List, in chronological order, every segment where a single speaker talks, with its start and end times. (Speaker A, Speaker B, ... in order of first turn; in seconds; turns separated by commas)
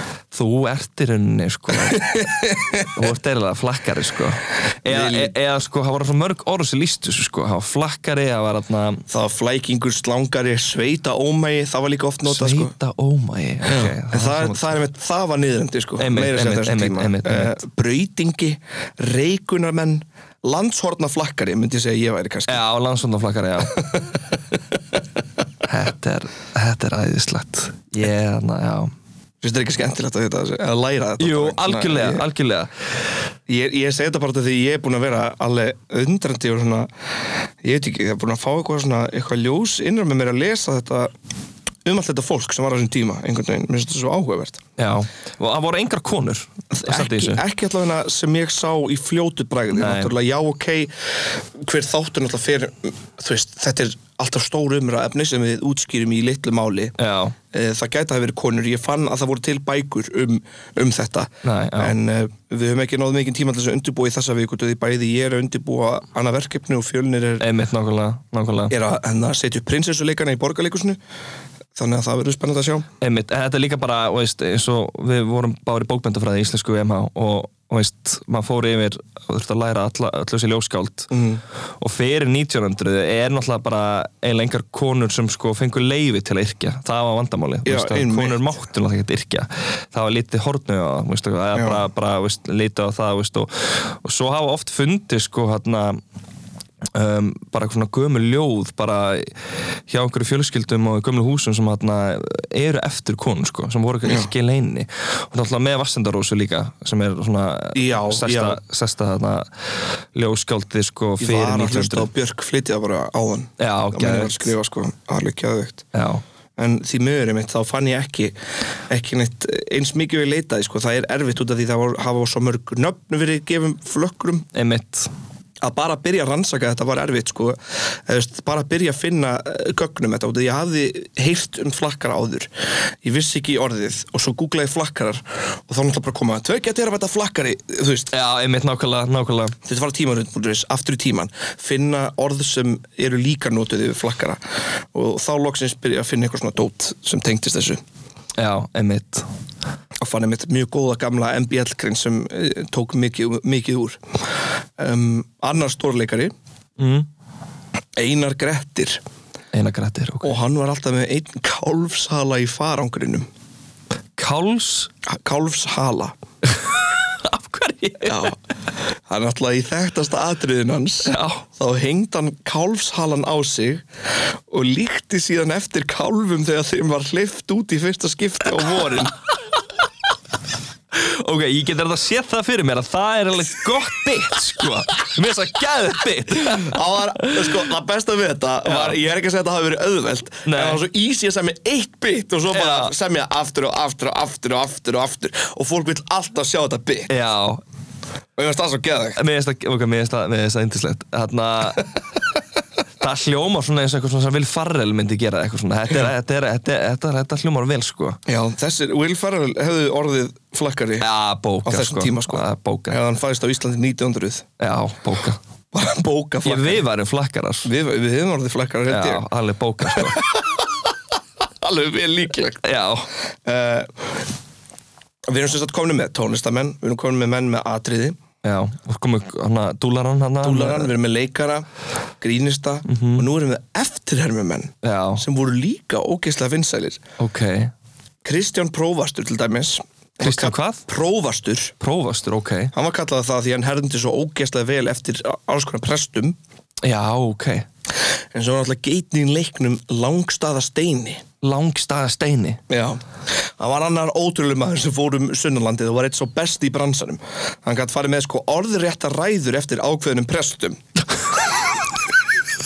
Speaker A: 0.3-9.0, Speaker B: 1.9-2.9, Speaker B: 4.8-5.3, Speaker B: 9.1-12.7, Speaker A: 12.2-14.7, Speaker B: 13.6-22.6, Speaker A: 16.0-17.6, Speaker A: 22.5-24.0, Speaker A: 25.6-28.9, Speaker B: 29.4-32.2, Speaker A: 31.2-32.7, Speaker B: 33.5-36.9, Speaker B: 37.6-41.1, Speaker B: 41.8-44.6, Speaker A: 44.8-47.4, Speaker B: 46.7-57.0, Speaker A: 49.7-50.1, Speaker A: 57.0-57.4, Speaker B: 57.5-67.4, Speaker A: 61.4-62.0, Speaker A: 67.4-68.7, Speaker B: 68.7-71.0, Speaker B: 71.7-72.9, Speaker A: 73.0-81.1, Speaker B: 81.1-81.4, Speaker A: 81.8-96.0, Speaker B: 87.6-88.4, Speaker B: 91.5-91.8, Speaker A: 96.9-99.3, Speaker A: 99.9-109.5, Speaker B: 104.0-104.3, Speaker B: 107.7-108.6, Speaker A: 110.1-112.1, Speaker B: 111.2-115.8, Speaker A: 113.6-114.5, Speaker A: 115.9-116.2, Speaker B: 116.6-118.3, Speaker B: 118.9-124.5, Speaker A: 124.5-125.1, Speaker B: 125.6-132.5, Speaker B: 133.0-138.1, Speaker A: 138.1-139.6, Speaker B: 139.6-144.4, Speaker B: 144.9-147.8, Speaker A: 148.4-149.3, Speaker B: 150.0-154.0, Speaker B: 154.8-156.3, Speaker A: 156.8-157.1, Speaker B: 158.0-159.0, Speaker A: 159.5-160.4, Speaker B: 160.2-163.3, Speaker A: 164.2-164.9, Speaker B: 165.1-166.1, Speaker A: 166.5-168.3, Speaker B: 168.0-168.4, Speaker B: 169.1-173.8, Speaker A: 171.1-171.4, Speaker B: 174.5-179.1, Speaker A: 180.9-186.7, Speaker B: 186.4-197.1, Speaker A: 188.6-189.0, Speaker A: 190.4-190.8, Speaker A: 192.5-192.9, Speaker A: 197.1-197.6, Speaker B: 198.3-199.2, Speaker A: 199.2-201.9, Speaker A: 203.0-208.2, Speaker B: 208.2-211.1, Speaker A: 211.0-213.0, Speaker B: 211.6-214.4, Speaker A: 214.6-215.4, Speaker B: 215.7-216.8, Speaker A: 216.4-217.7, Speaker B: 217.6-219.2, Speaker A: 218.9-220.2, Speaker B: 219.9-220.7, Speaker B: 221.6-222.6, Speaker A: 222.6-223.1, Speaker B: 223.4-224.2, Speaker B: 225.3-228.2, Speaker A: 228.4-230.9, Speaker B: 230.4-231.6, Speaker B: 232.2-237.0, Speaker A: 232.9-233.3, Speaker A: 234.8-235.2, Speaker A: 237.2-237.7, Speaker B: 238.2-241.7, Speaker A: 240.2-240.9, Speaker A: 241.8-242.7, Speaker B: 242.7-246.4, Speaker A: 246.8-247.7, Speaker B: 248.3-251.2, Speaker A: 251.4-252.6, Speaker B: 252.7-253.0, Speaker B: 253.6-260.8, Speaker B: 261.3-261.7